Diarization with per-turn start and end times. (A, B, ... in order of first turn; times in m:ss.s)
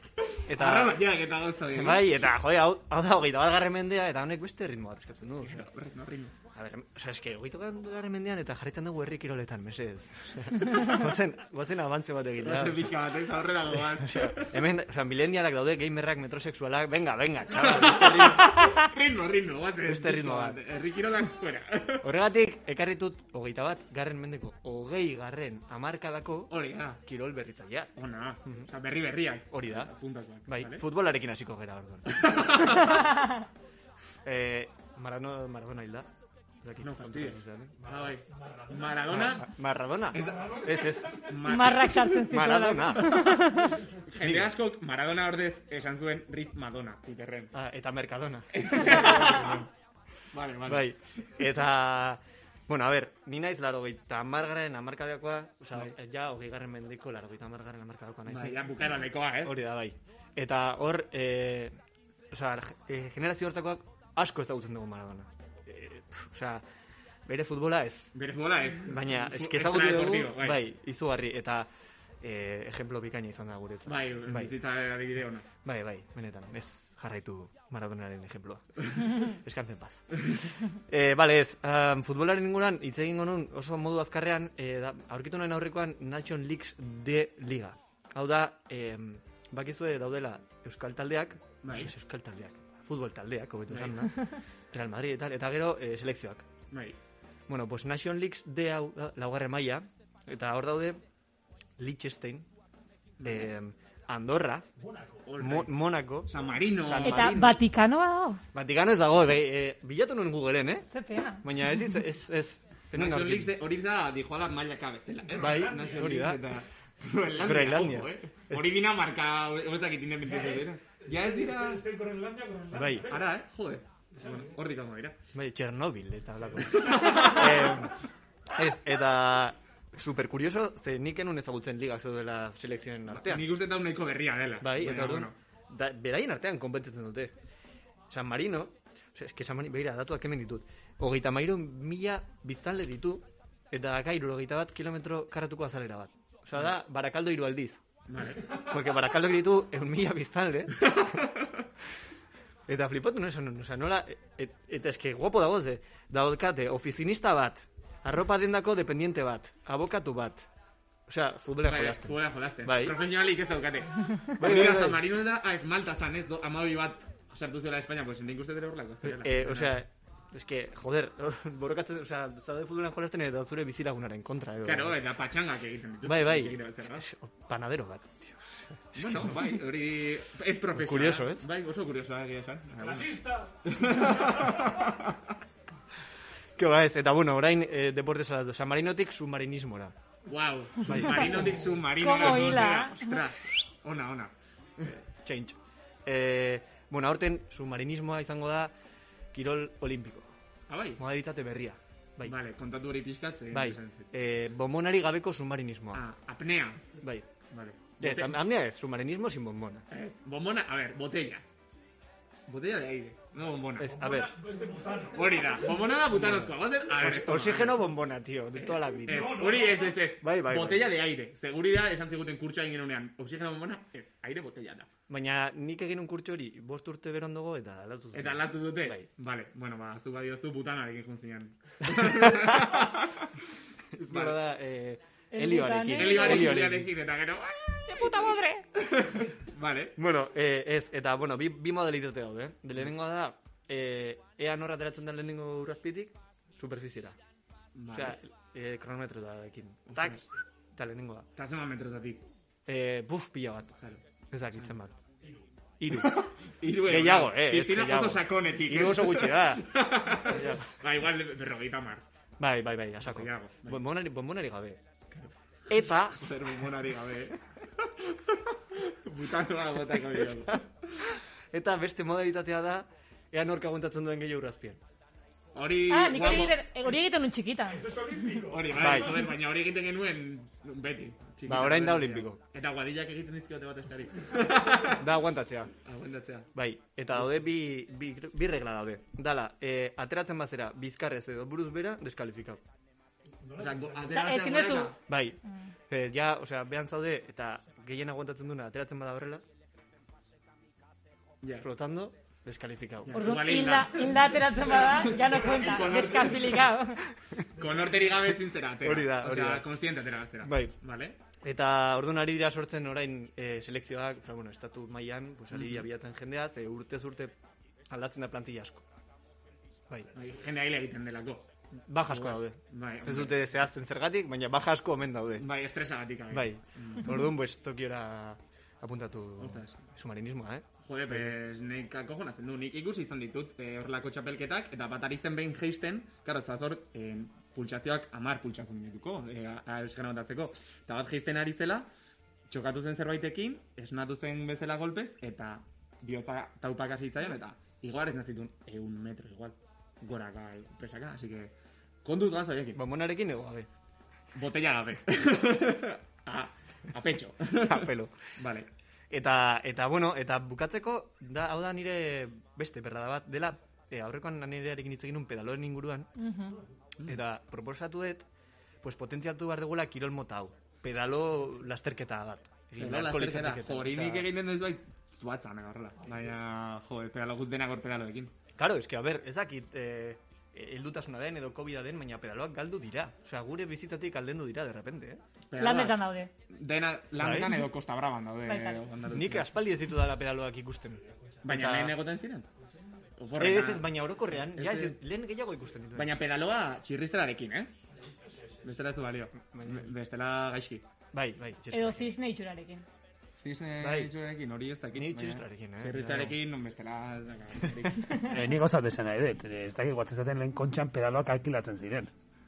0:00.5-0:01.1 A
0:00.5-0:02.2 B
0:01.7-0:05.7 A
0:05.4-0:06.3 B
0:06.5-0:13.0 A
0:12.4-0:14.6 B
0:13.8-0:18.6 A
0:17.6-0:22.1 B
0:19.8-0:20.6 A
0:22.0-0:27.9 A
0:26.5-0:27.0 B
0:28.0-0:30.9 B
0:29.5-0:29.9 A
0:30.5-0:33.0 A
0:32.1-0:33.0 B
0:34.2-0:36.1 A
0:36.6-0:37.9 A
0:36.8-0:39.5 B
0:37.8-0:39.3 C
0:39.1-0:41.2 A
0:40.1-0:42.1 B
0:40.2-0:41.4 C
0:41.4-0:43.8 D
0:42.2-0:43.5 A
0:44.1-0:47.5 B
0:44.1-0:44.5 A
0:47.5-0:49.7 A
0:48.5-0:49.6 B
0:50.3-0:51.5 B
0:50.6-0:58.7 A
0:58.3-0:59.6 B
0:59.4-1:01.8 A
1:02.3-1:06.6 A
1:07.2-1:08.1 A
1:08.1-1:10.7 B
1:08.9-1:11.7 A
1:12.2-1:14.5 A
1:13.8-1:15.4 B
1:15.6-1:36.5 A
1:31.6-1:31.9 B
1:33.7-1:34.1 B
1:36.7-1:37.0 B
1:37.5-1:41.0 A
1:41.8-1:42.5 A
1:43.2-1:43.5 B
1:43.2-1:44.6 A
1:44.8-1:45.4 C
1:45.3-1:47.4 B
1:45.4-1:47.6 A
1:47.0-1:48.4 D
1:48.5-1:50.9 A
1:50.9-1:51.4 D
1:51.4-1:53.6 A
1:52.9-2:01.9 B
1:55.3-1:56.2 C
1:55.4-1:56.4 A
1:57.3-1:58.8 A
2:00.2-2:03.3 C
2:02.7-2:03.2 A
2:03.0-2:05.2 B
2:04.1-2:04.5 C
2:05.3-2:07.9 A
2:06.6-2:07.2 C
2:06.6-2:07.7 B
2:08.5-2:13.5 A
2:13.1-2:15.3 B
2:14.6-2:17.3 A
2:18.1-2:27.8 A
2:28.1-2:28.6 B
2:28.6-2:31.0 A
2:30.8-2:31.6 B
2:32.7-2:40.5 A
2:41.1-2:43.0 A
2:41.6-2:49.8 B
2:44.4-2:45.0 A
2:49.0-2:55.0 A
2:54.6-2:57.0 B
2:56.0-2:59.6 A
2:58.9-3:05.2 B
3:00.7-3:01.5 A
3:02.8-3:04.8 C
3:06.6-3:09.9 A
3:10.2-3:15.0 B
3:10.8-3:11.7 A
3:11.9-3:13.2 D
3:15.2-3:18.7 A
3:19.3-3:20.3 A
3:20.7-3:21.0 B
3:21.0-3:22.4 A
3:22.2-3:24.1 B
3:23.5-3:26.0 A
3:25.9-3:27.0 B
3:27.0-3:27.3 A
3:27.5-3:28.4 B
3:28.0-3:29.8 A
3:29.9-3:31.4 B
3:32.5-3:33.9 B
3:33.8-3:34.4 A
3:33.8-3:36.0 C
3:35.1-3:37.9 B
3:36.1-3:39.6 A
3:38.5-3:44.9 B
3:39.1-3:40.0 C
3:40.2-3:40.9 A
3:45.1-3:49.1 A
3:48.1-3:53.3 B
3:52.0-3:52.8 A
3:53.9-3:56.9 A
3:54.1-3:54.4 B
3:55.3-3:56.6 D
3:55.9-3:59.9 B
3:57.8-3:58.6 D
4:00.0-4:07.2 A
4:07.7-4:08.2 B
4:07.9-4:11.3 A
4:09.9-4:10.2 B
4:11.3-4:12.3 B
4:12.7-4:13.8 A
4:14.3-4:15.0 A
4:15.8-4:16.3 A
4:15.9-4:22.0 B
4:16.8-4:20.7 A
4:22.4-4:24.8 A
4:23.0-4:23.9 B
4:25.7-4:26.2 A
4:26.0-4:30.6 B
4:29.9-4:30.6 A
4:31.5-4:34.8 A
4:35.5-4:36.6 B
4:35.9-4:38.0 D
4:37.7-4:39.4 C
4:38.4-4:45.1 B
4:38.7-4:39.3 A
4:41.4-4:42.4 A
4:45.0-4:45.7 A
4:45.8-4:46.5 B
4:46.5-4:52.6 A
4:53.4-4:54.4 C
4:53.6-4:55.0 B
4:54.1-4:55.7 D
4:55.0-4:59.4 A
5:01.4-5:01.7 B
5:01.6-5:03.4 A
5:03.0-5:06.7 B
5:03.1-5:07.0 D
5:04.8-5:05.7 C
5:07.1-5:07.5 A
5:07.6-5:11.2 B
5:07.6-5:08.1 C
5:08.8-5:09.8 A
5:10.4-5:10.7 A
5:11.4-5:17.3 A
5:15.5-5:15.9 B
5:17.9-5:18.8 A
5:20.1-5:21.5 B
5:21.9-5:25.5 A
5:22.1-5:23.4 B
5:25.4-5:27.2 B
5:26.3-5:31.4 A
5:29.4-5:29.8 B
5:30.8-5:41.9 B
5:42.5-5:52.8 B
5:52.7-5:53.7 A
5:54.3-5:58.7 B
5:57.6-5:58.1 A
5:59.1-6:06.1 A
6:06.2-6:06.6 D
6:07.0-6:08.2 A
6:08.8-6:14.3 A
6:12.8-6:18.3 B
6:18.6-6:25.2 A
6:25.5-6:29.5 B
6:25.6-6:26.3 D
6:27.2-6:27.7 A
6:28.4-6:28.8 D
6:29.0-6:32.0 A
6:31.0-6:31.5 C
6:31.4-6:32.5 B
6:33.2-6:35.0 B
6:33.3-6:36.2 A
6:35.9-6:37.7 B
6:37.9-6:38.7 C
6:38.6-6:40.9 B
6:39.3-6:39.9 A
6:41.1-6:42.2 A
6:41.7-6:42.8 D
6:43.4-6:48.2 B
6:43.8-6:44.1 A
6:44.9-6:46.4 A
6:47.6-6:47.9 A
6:48.2-6:52.1 E